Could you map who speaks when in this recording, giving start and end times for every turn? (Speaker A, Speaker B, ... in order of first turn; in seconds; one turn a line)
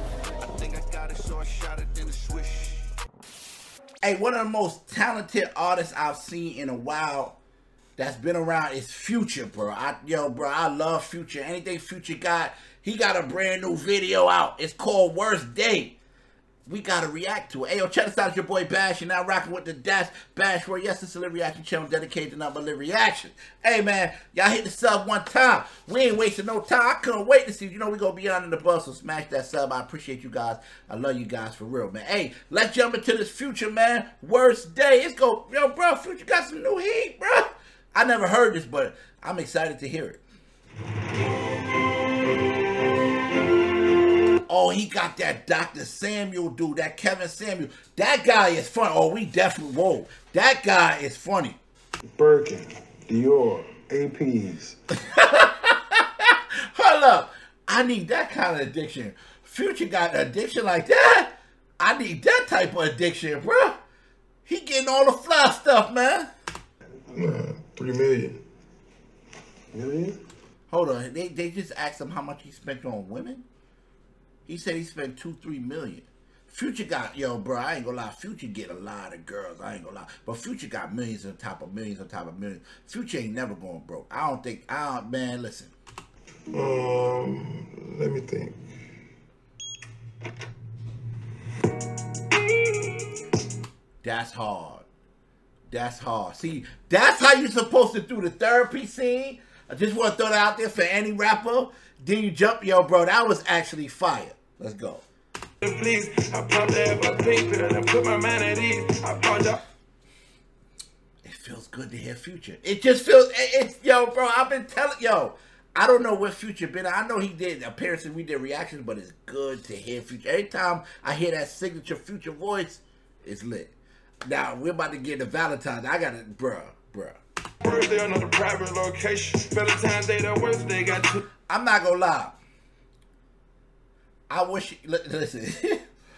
Speaker A: 0.4-2.8
Speaker B: 4.0-7.4
Speaker B: 8.0-16.0
Speaker B: 16.6-40.2
Speaker B: 44.5-51.6
Speaker C: 52.1-54.7
Speaker B: 55.0-63.8
Speaker B: 64.4-66.3
Speaker D: 67.6-68.2
Speaker C: 69.7-70.2
Speaker B: 70.7-73.4
Speaker B: 74.5-85.7
Speaker D: 86.5-88.5
Speaker B: 94.0-94.8
Speaker B: 95.7-105.0
Speaker D: 105.6-109.6
Speaker B: 111.2-123.7
Speaker B: 124.2-127.2
Speaker D: 127.6-131.2
Speaker B: 131.5-132.4
Speaker B: 134.3-135.8